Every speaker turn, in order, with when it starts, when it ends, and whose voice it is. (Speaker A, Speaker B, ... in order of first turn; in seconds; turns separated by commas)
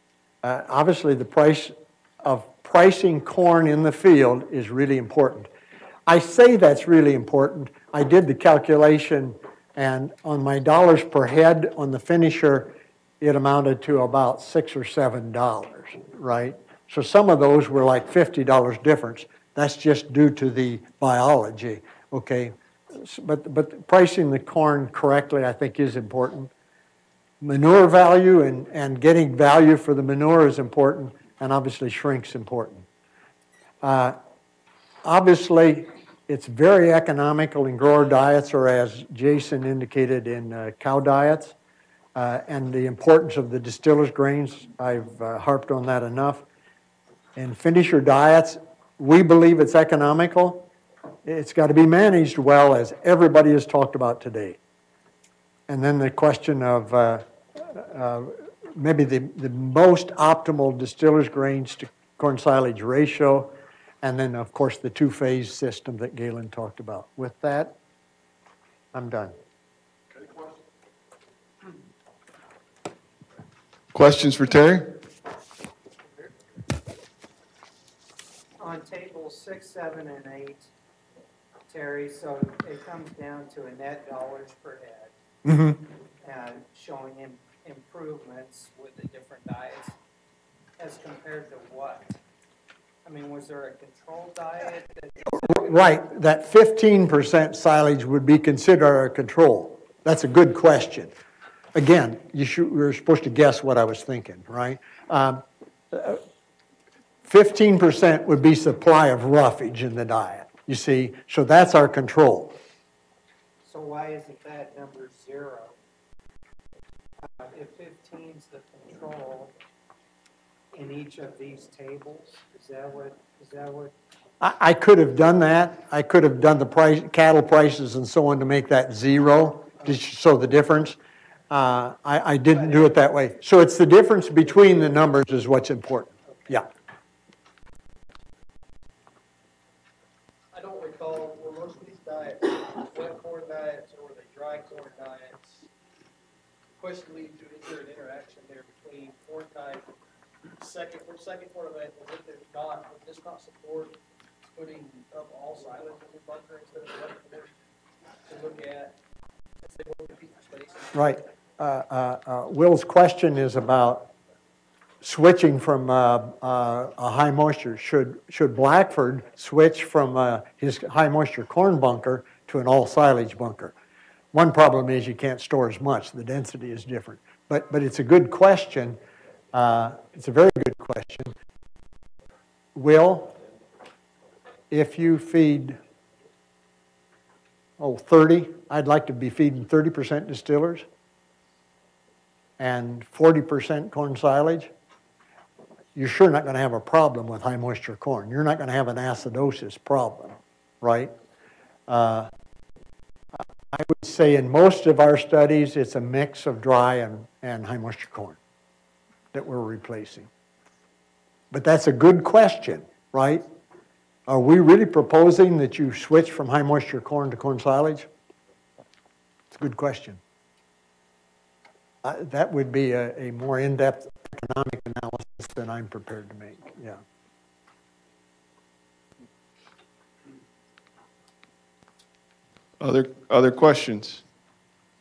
Speaker A: 0.4-5.5, Speaker A: 6.1-26.5, Speaker A: 27.4-32.9, Speaker A: 33.8-34.2, Speaker A: 35.0-41.5, Speaker A: 42.1-46.4, Speaker A: 47.4-50.7, Speaker A: 51.2-54.6, Speaker A: 55.7-67.7, Speaker A: 68.9-69.3, Speaker B: 73.9-74.9, Speaker C: 78.6-80.7, Speaker C: 81.7-85.1, Speaker A: 85.4-85.8, Speaker C: 86.2-90.0, Speaker C: 90.8-92.2, Speaker C: 93.0-95.9, Speaker A: 95.2-101.1, Speaker A: 101.7-106.2, Speaker A: 107.2-112.5, Speaker C: 113.6-115.8, Speaker C: 117.2-119.5, Speaker C: 120.7-123.9, Speaker A: 124.4-131.0, Speaker A: 131.5-136.7, Speaker D: 140.5-145.7, Speaker D: 146.8-149.9, Speaker D: 150.6-157.5, Speaker D: 158.2-159.0, Speaker D: 159.6-160.9, Speaker A: 160.9-164.1, Speaker A: 165.0-173.7, Speaker A: 174.3-179.0, Speaker A: 179.5-181.3, Speaker A: 182.7-183.3, Speaker A: 184.7-185.8, Speaker A: 187.8-190.8, Speaker A: 192.6-194.7, Speaker A: 195.9-201.1, Speaker A: 201.9-202.3, Speaker A: 203.7-208.4, Speaker A: 209.3-210.3, Speaker A: 211.5-213.4, Speaker A: 214.3-218.1, Speaker A: 219.5-220.2, Speaker A: 222.0-227.0, Speaker B: 232.8-234.2